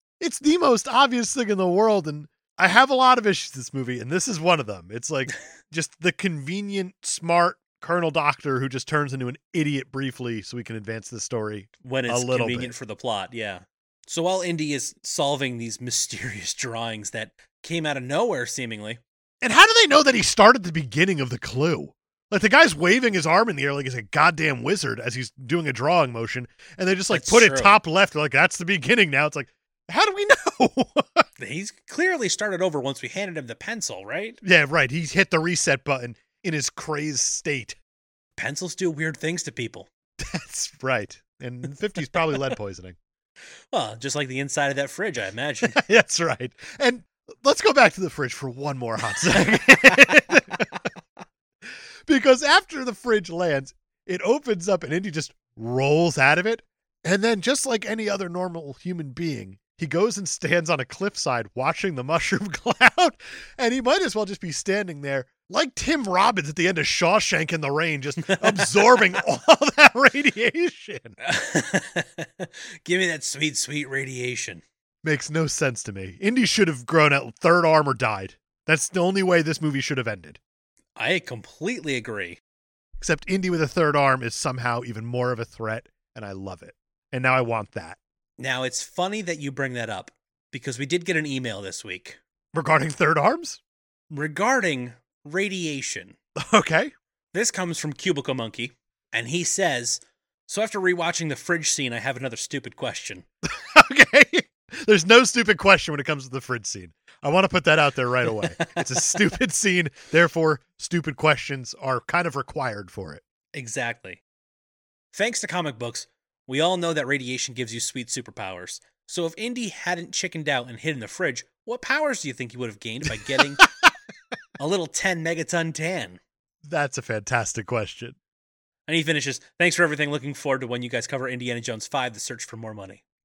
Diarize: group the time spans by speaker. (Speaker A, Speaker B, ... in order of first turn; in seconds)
Speaker A: 0.2-12.7, 19.4-31.2, 34.4-37.8, 40.2-43.0, 45.7-50.7, 52.0-71.2, 75.0-80.4, 83.0-88.0, 92.5-93.6, 96.4-96.9, 103.4-113.2, 123.2-123.7, 126.6-128.2
Speaker B: 11.8-19.0, 27.1-27.8, 31.4-34.4, 38.4-39.9, 43.7-45.8, 68.2-69.0, 71.2-74.6, 81.0-82.4, 88.4-92.2, 94.1-96.2, 97.3-103.2, 108.4-108.8, 113.5-114.2, 115.1-123.7, 124.6-126.2, 128.9-133.0